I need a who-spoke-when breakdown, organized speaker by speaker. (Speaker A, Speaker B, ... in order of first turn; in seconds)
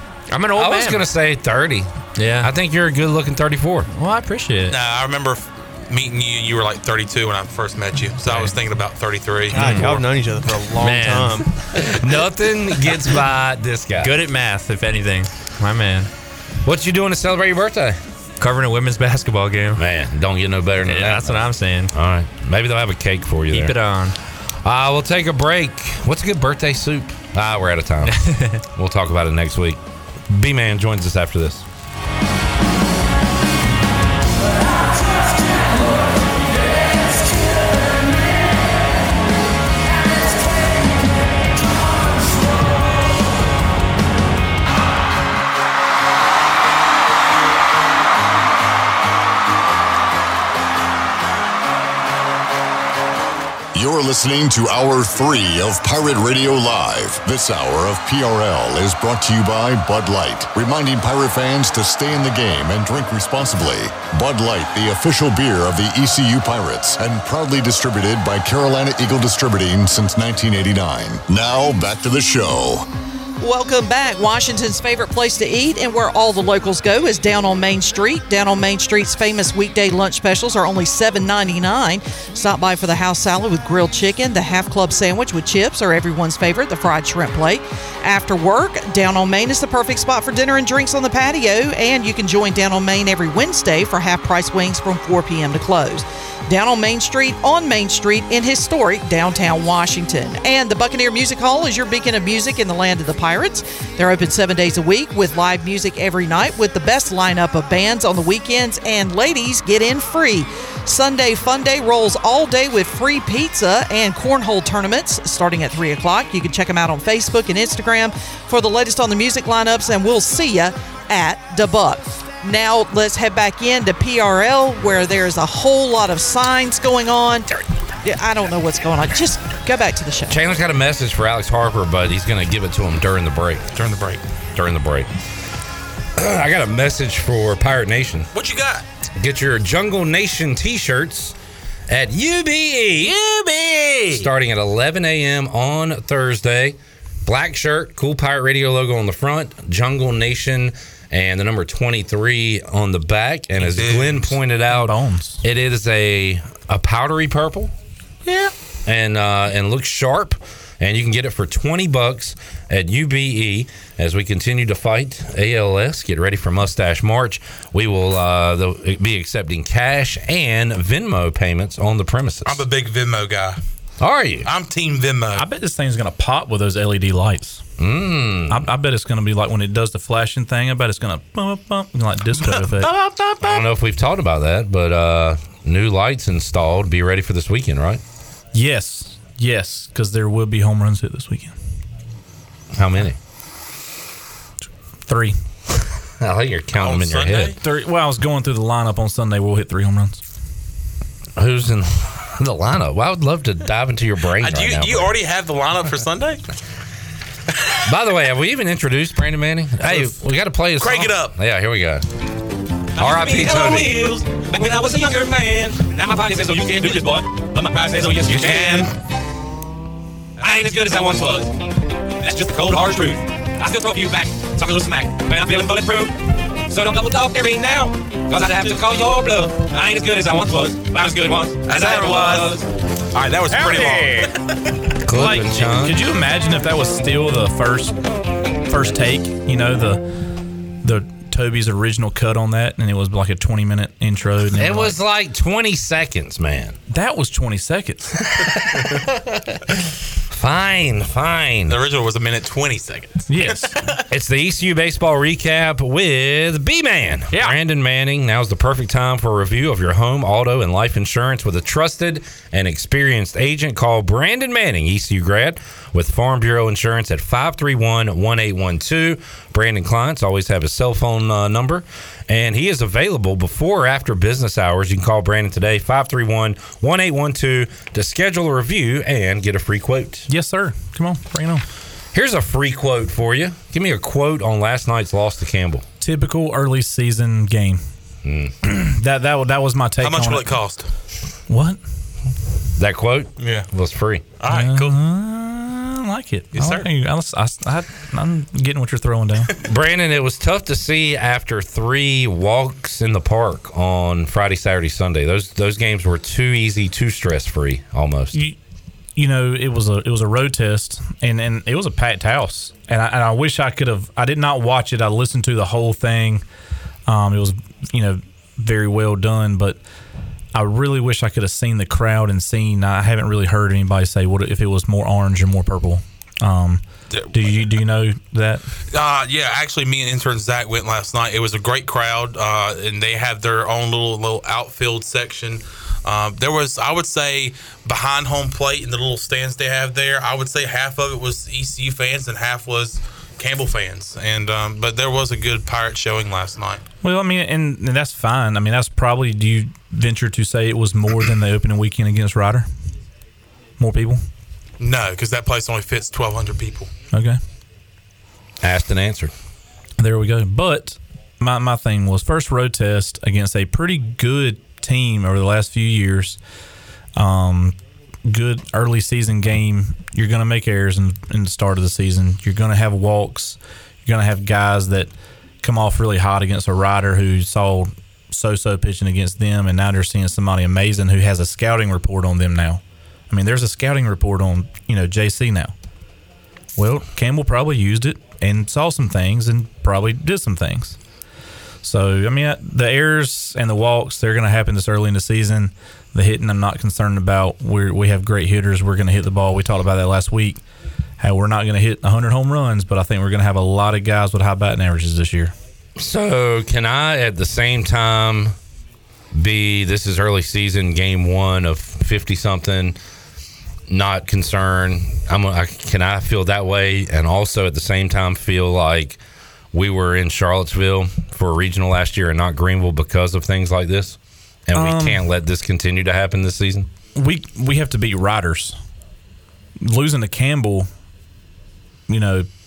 Speaker A: 0.3-1.1, 2.1-2.5, 3.9-4.8, 8.2-8.6, 9.5-10.0, 10.8-11.5, 14.0-16.1, 18.4-19.8, 20.8-21.9, 23.5-24.2, 28.0-28.6
Speaker B: 0.6-3.9, 11.7-14.2, 16.6-18.0, 19.8-23.8, 24.6-31.6, 130.3-133.7, 134.5-135.1, 136.2-138.3, 139.2-141.3, 141.9-143.3, 144.1-157.7, 158.8-172.6, 174.0-174.5, 177.8-178.7, 183.4-188.0, 192.7-193.2, 196.2-197.6, 201.4-205.1, 207.8-212.0, 213.0-214.1, 235.1-236.0, 244.5-246.8, 248.3-249.6, 250.3-251.8, 254.1-280.3, 282.1-285.8, 288.2-288.5, 292.8-294.2, 299.6-308.4, 358.6-359.3, 406.0-408.5, 409.3-413.0, 413.9-419.2, 419.7-426.9
Speaker C: 4.7-9.6, 133.7-134.2, 138.3-138.8, 143.4-144.2, 153.6-154.4, 172.4-173.6, 174.4-175.5, 196.8-197.6, 204.4-206.4, 210.8-211.3, 218.3-218.9, 231.7-232.6, 233.1-234.3, 251.7-254.0, 290.0-290.9, 293.4-293.7, 294.4-295.0, 296.5-296.9, 327.1-327.6, 328.9-346.8, 354.8-356.9
Speaker D: 9.5-11.5
Speaker E: 53.7-72.8
Speaker F: 73.4-127.5, 128.0-130.4
Speaker G: 154.7-155.4, 175.3-177.6, 178.5-182.9, 188.5-191.5, 195.1-195.3, 197.6-200.2, 233.5-234.3, 235.1-237.9, 238.7-240.0, 240.8-245.0, 246.9-248.1, 253.3-253.7, 280.3-281.6, 286.0-287.8, 288.6-290.6, 291.5-291.8, 294.4-299.5, 309.1-316.4, 317.1-319.8, 320.5-326.8, 327.3-328.6, 347.0-352.7, 353.8-354.2, 357.1-357.4, 360.0-366.4, 367.1-367.8, 368.3-375.1, 375.6-385.7, 386.8-391.0, 391.8-400.6, 401.2-405.5, 424.7-425.2, 427.1-428.8, 429.8-430.9, 432.1-432.5
Speaker H: 213.0-218.9, 220.4-221.6, 222.2-226.1, 226.7-232.6